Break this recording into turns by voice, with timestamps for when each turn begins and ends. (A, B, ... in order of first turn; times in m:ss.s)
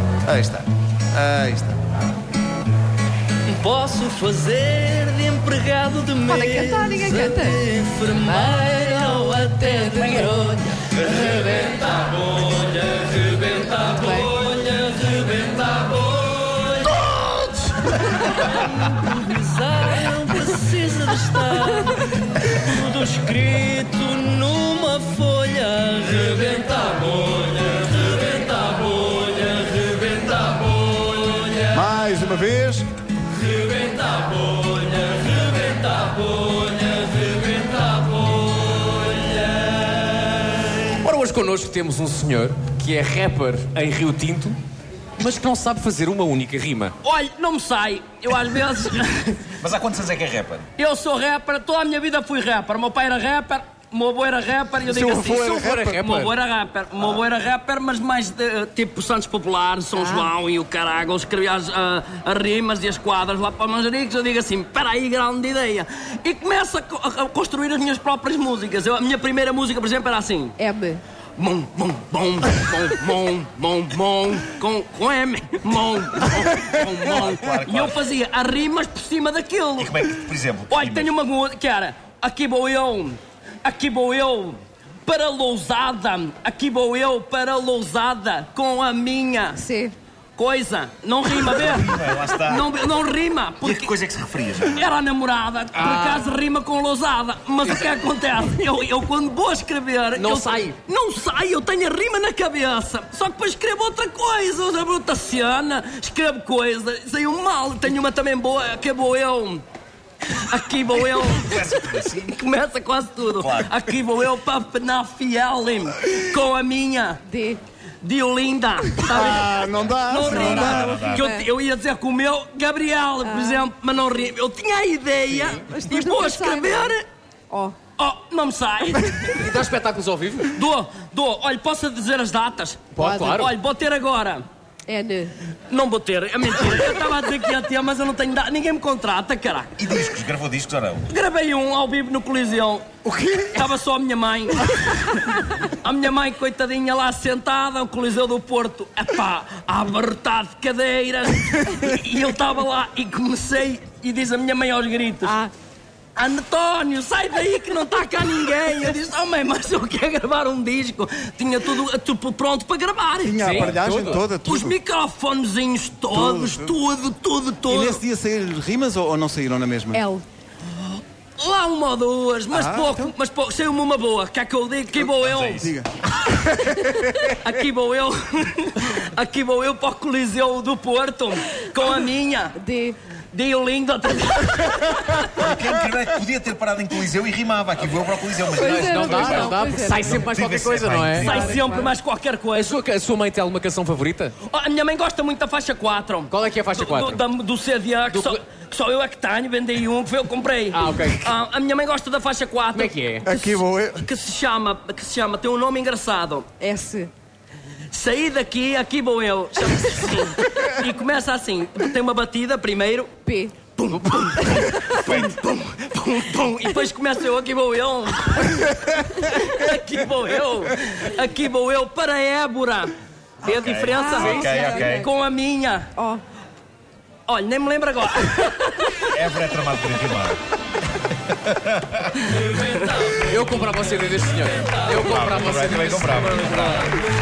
0:00.2-0:01.8 A
0:03.5-0:31.7 B
0:06.2-0:07.6 C
0:08.2-0:10.3 C
0:13.9-0:14.3 C
0:31.7-0:32.8 A
0:33.6-0:39.3 B
0:41.0-0:44.6 D
0:45.2-0:46.9 D
0:47.0-0:49.5 B
0:49.6-0:50.7 E
0:50.8-1:10.6 B
0:54.9-0:56.0 A
0:55.2-0:56.3 D
0:59.9-1:00.3 C
1:10.6-1:11.0 C
1:11.4-1:20.0 B
1:17.0-1:18.0 E
1:19.8-1:21.1 E
1:20.7-1:29.6 B
1:29.6-1:29.9 C
1:30.4-1:33.9 B
1:31.4-1:32.7 E
1:33.6-1:34.9 E
1:34.7-1:49.6 B
1:40.2-1:40.7 D
1:50.3-1:57.2 B
1:51.3-1:52.4 E
1:53.4-1:53.8 E
1:57.3-1:57.6 C
1:58.0-2:07.0 B
1:59.1-2:01.0 A
2:00.2-2:01.2 E
2:00.4-2:01.5 C
2:03.2-2:03.7 C
2:05.3-2:06.9 C
2:07.5-2:07.8 C
2:08.0-2:09.5 B
2:09.3-2:10.6 D
2:10.5-2:14.4 B
2:12.9-2:13.5 D
2:13.1-2:13.3 C
2:14.9-2:15.3 C
2:15.7-2:19.7 B
2:19.8-2:21.0 E
2:21.1-2:22.8 B
2:23.0-2:23.6 A
2:23.5-2:35.4 B
2:35.2-2:35.5 C
2:36.2-2:48.0 B
2:43.2-2:44.8 A
2:43.4-2:44.2 D
2:46.1-2:46.7 A
2:47.7-2:50.0 A
2:49.9-2:50.2 C
2:51.4-2:55.7 B
2:52.5-2:53.1 A
2:55.2-2:55.7 E
2:55.6-2:57.4 A
2:57.2-3:02.6 B
3:02.6-3:03.0 C
3:03.3-3:05.4 B
3:05.2-3:11.7 E
3:08.4-3:10.4 C
3:08.7-3:11.3 D
3:11.2-3:12.8 B
3:11.2-3:11.9 C
3:12.5-3:14.4 D
3:14.4-3:26.5 B
3:16.3-3:17.2 D
3:18.1-3:18.4 D
3:20.7-3:21.3 D
3:22.7-3:23.2 D
3:23.2-3:24.0 A
3:26.6-3:27.1 C
3:27.9-3:33.2 B
3:33.2-3:33.6 C
3:33.8-3:45.9 B
3:34.4-3:35.0 C
3:35.0-3:35.3 E
3:43.4-3:45.1 E
3:43.9-3:45.0 C
3:44.2-3:44.5 D
3:46.0-3:46.2 C
3:47.3-3:49.1 B
3:49.1-3:50.4 E
3:51.3-3:52.1 E
3:52.2-3:55.7 B
3:53.2-3:56.8 D
3:54.9-3:57.0 E